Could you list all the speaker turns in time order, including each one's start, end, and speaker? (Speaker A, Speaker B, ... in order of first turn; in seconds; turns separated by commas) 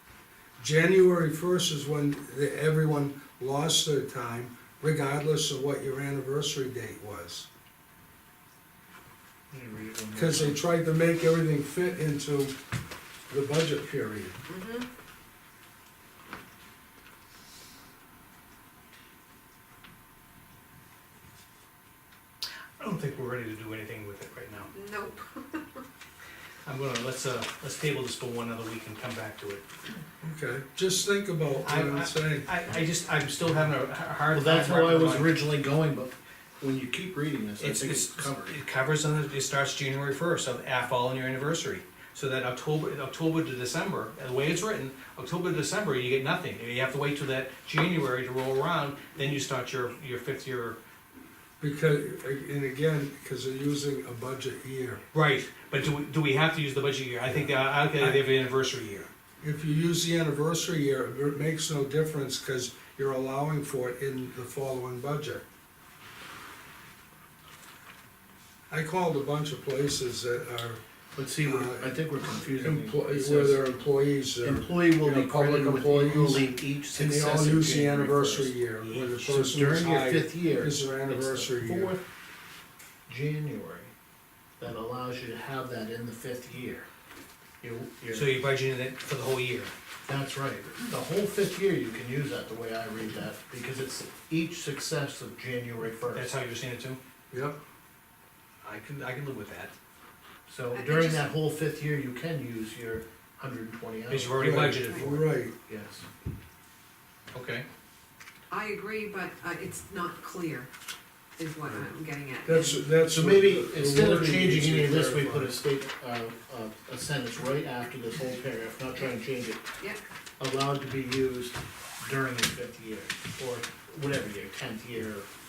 Speaker A: 0.6-7.5, Speaker B: 9.5-10.6, Speaker A: 10.1-12.5, Speaker A: 13.3-14.4, Speaker C: 14.5-14.9, Speaker D: 22.8-24.7, Speaker C: 24.7-25.8, Speaker D: 26.6-29.6, Speaker A: 30.2-32.5, Speaker D: 31.6-35.5, Speaker B: 34.3-38.6, Speaker D: 37.6-50.8, Speaker A: 51.6-55.0, Speaker D: 55.1-59.1, Speaker A: 57.3-58.2, Speaker A: 59.4-65.4, Speaker A: 68.7-70.8, Speaker B: 71.1-73.6, Speaker A: 71.4-71.9, Speaker A: 72.6-82.0, Speaker B: 74.4-78.6, Speaker D: 78.8-79.2, Speaker B: 79.2-82.0, Speaker B: 83.1-83.9, Speaker B: 84.6-86.9, Speaker B: 87.6-88.4, Speaker D: 88.1-89.7, Speaker B: 90.0-96.3, Speaker D: 96.1-97.0, Speaker A: 97.3-97.6, Speaker D: 98.6-99.7, Speaker B: 100.5-106.1, Speaker C: 100.7-101.2, Speaker D: 104.1-105.1, Speaker A: 104.3-105.5, Speaker C: 104.9-105.1, Speaker D: 107.3-107.6, Speaker C: 108.5-110.7, Speaker C: 111.4-112.9, Speaker A: 112.4-115.5, Speaker B: 113.0-119.7, Speaker B: 120.4-125.3